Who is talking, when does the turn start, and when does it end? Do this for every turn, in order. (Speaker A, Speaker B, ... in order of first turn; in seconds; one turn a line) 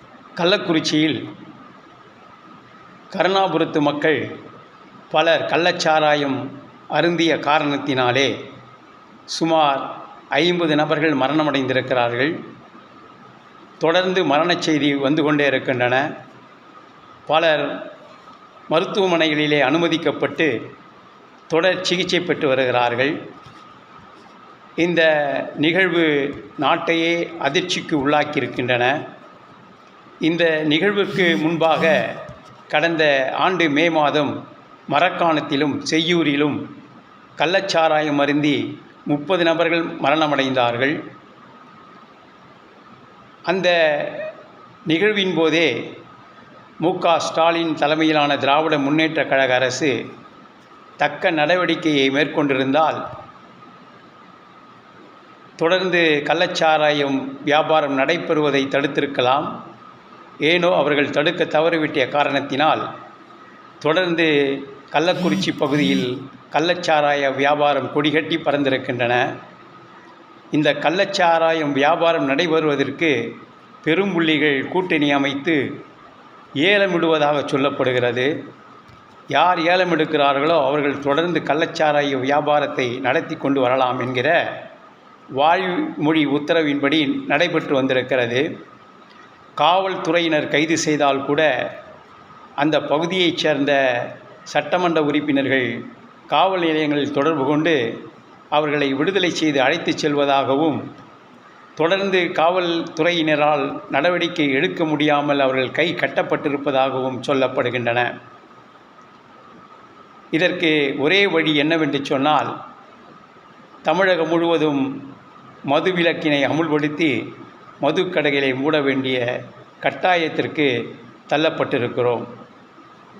Speaker A: 0.4-1.2
Speaker A: 3.1-4.2
Speaker A: 5.1-6.4
Speaker A: 6.9-8.3
Speaker A: 9.3-12.3
Speaker A: 13.8-16.1
Speaker A: 17.3-17.8
Speaker A: 18.7-20.5
Speaker A: 21.5-23.1
Speaker A: 24.8-29.0
Speaker A: 30.2-32.2
Speaker A: 32.7-34.3
Speaker A: 34.9-36.6
Speaker A: 37.4-41.0
Speaker A: 43.5-44.3
Speaker A: 44.9-45.7
Speaker A: 46.8-50.0
Speaker A: 51.0-53.0
Speaker A: 55.6-59.5
Speaker A: 60.5-62.8
Speaker A: 63.8-69.3
Speaker A: 70.5-73.1
Speaker A: 73.8-75.6
Speaker A: 76.6-78.3
Speaker A: 79.3-84.4
Speaker A: 85.4-88.5
Speaker A: 89.6-91.5
Speaker A: 92.6-95.8
Speaker A: 96.3-97.8
Speaker A: 98.5-100.8
Speaker A: 101.8-108.1
Speaker A: 110.3-112.5
Speaker A: 113.8-114.9
Speaker A: 115.7-117.1
Speaker A: 117.8-119.2
Speaker A: 119.8-120.7
Speaker A: 121.3-122.2